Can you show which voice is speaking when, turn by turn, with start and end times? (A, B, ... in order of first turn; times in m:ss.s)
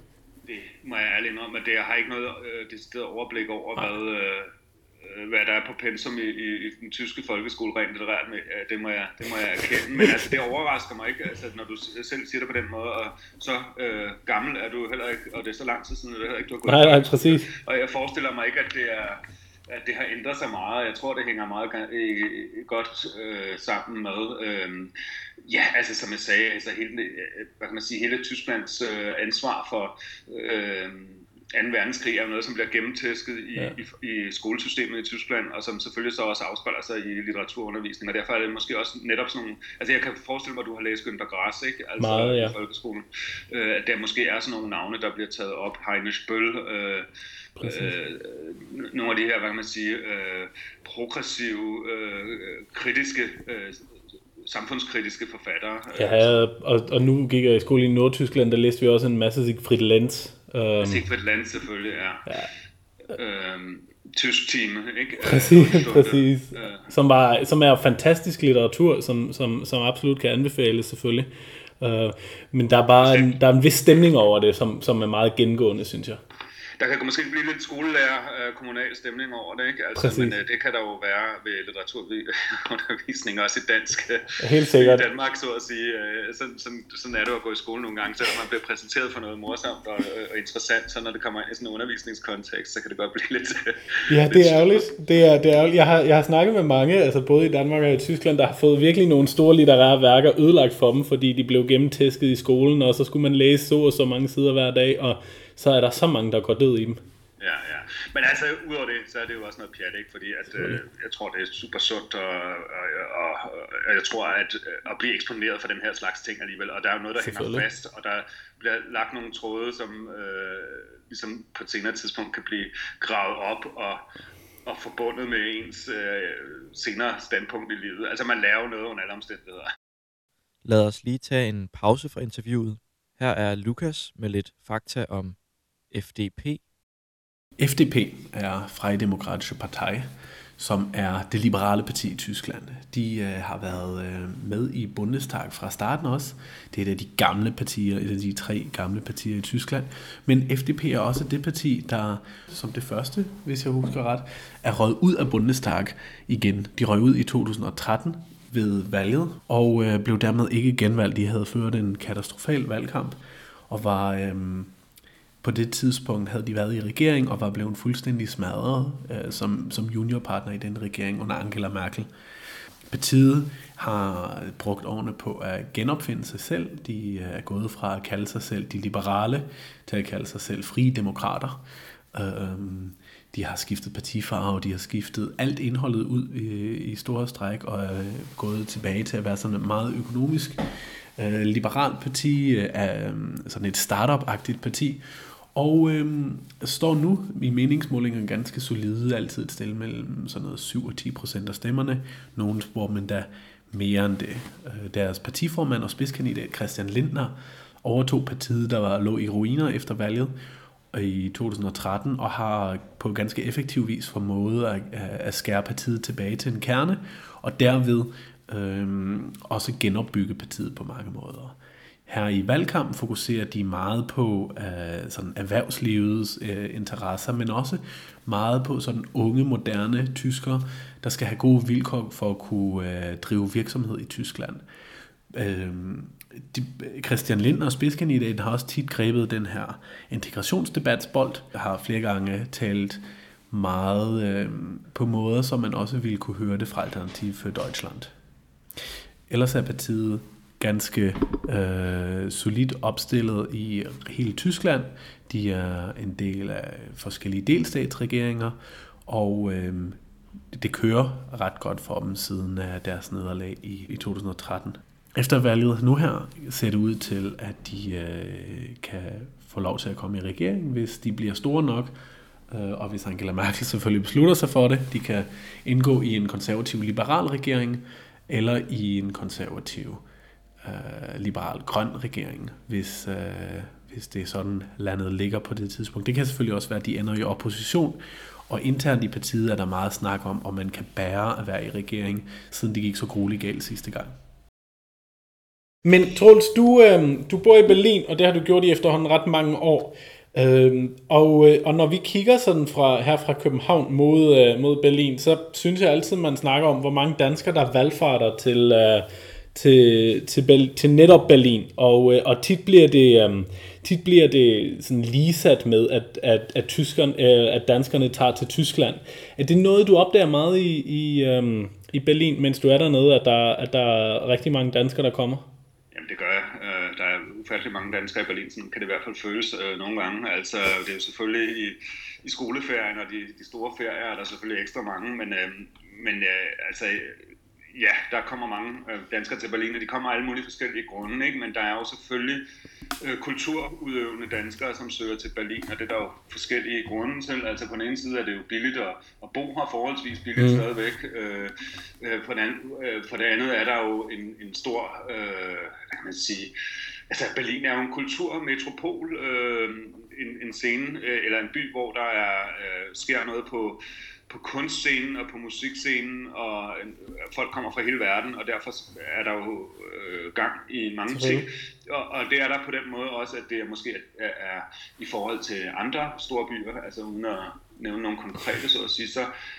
0:00.4-0:24.9 A
0:16.6-0:17.5 B
0:25.4-0:47.1 A
0:42.0-0:42.6 B
0:47.6-0:47.9 B
0:47.6-0:53.8 A
0:54.4-0:56.4 A
0:55.9-1:01.0 B
1:00.8-1:02.2 A
1:03.1-1:06.9 A
1:05.2-1:16.2 B
1:13.0-1:13.3 A
1:16.8-1:34.8 A
1:20.0-1:20.3 B
1:24.4-1:25.0 B
1:34.1-1:47.0 B
1:47.4-2:04.0 A
1:50.5-1:50.8 B
1:57.2-1:57.6 B
2:04.6-2:09.7 A
2:10.6-2:15.4 C
2:15.9-2:16.6 C
2:17.6-2:44.7 D
2:45.4-2:52.1 D
2:52.9-3:01.6 D
3:02.1-3:10.6 D
3:11.2-3:15.0 D
3:15.5-3:30.3 D
3:30.9-3:54.6 D
3:55.3-4:08.1 D
4:09.3-4:20.0 D
4:20.5-4:31.9 D
4:32.5-4:40.0 D
4:40.6-4:54.2 D
4:55.8-5:25.4 B
5:25.9-5:42.4 A
5:43.0-5:56.5 A
5:50.4-5:50.6 B
5:57.1-6:19.3 A
6:11.1-6:11.5 B